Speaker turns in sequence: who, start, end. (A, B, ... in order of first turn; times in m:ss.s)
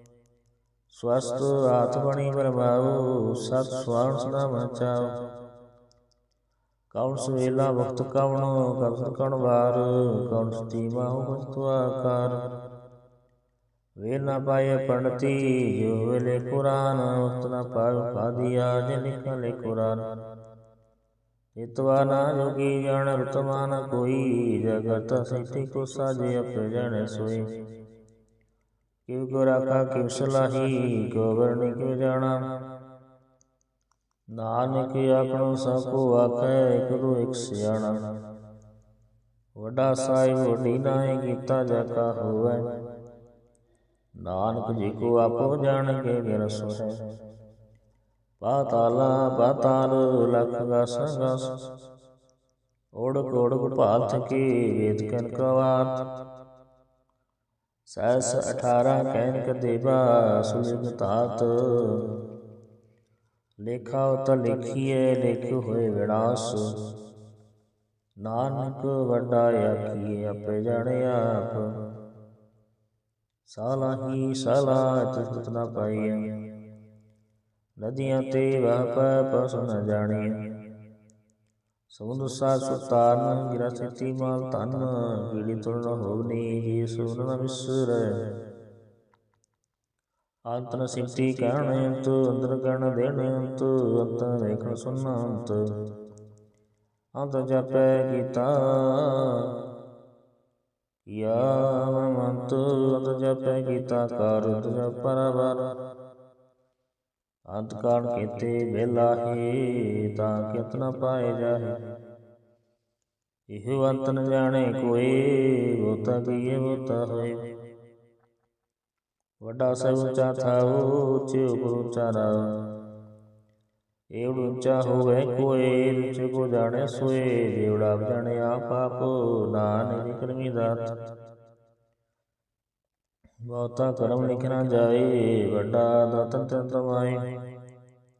0:01.0-0:05.0 A
0:06.9-0:12.4 A
0:14.0-0:20.0 A
0:21.6-0:27.4 A
0:29.1-0:32.4 A
0:34.4-0:38.0 A
0:39.6-0:42.6 A
0:44.2-0:47.0 A
0:48.4-0:51.4 A
0:53.0-0:55.9 A
0:57.9-1:02.0 A
1:03.6-1:06.6 A
1:08.2-1:11.7 A
1:13.5-1:16.2 A
1:17.8-1:20.3 A
1:21.9-1:28.2 A
1:30.5-1:35.6 A
1:37.2-1:39.4 A
1:41.1-1:45.6 A
1:47.5-1:51.7 A
1:53.5-1:57.4 A
1:59.4-2:02.4 A
2:04.2-2:10.9 A
2:13.5-2:17.2 A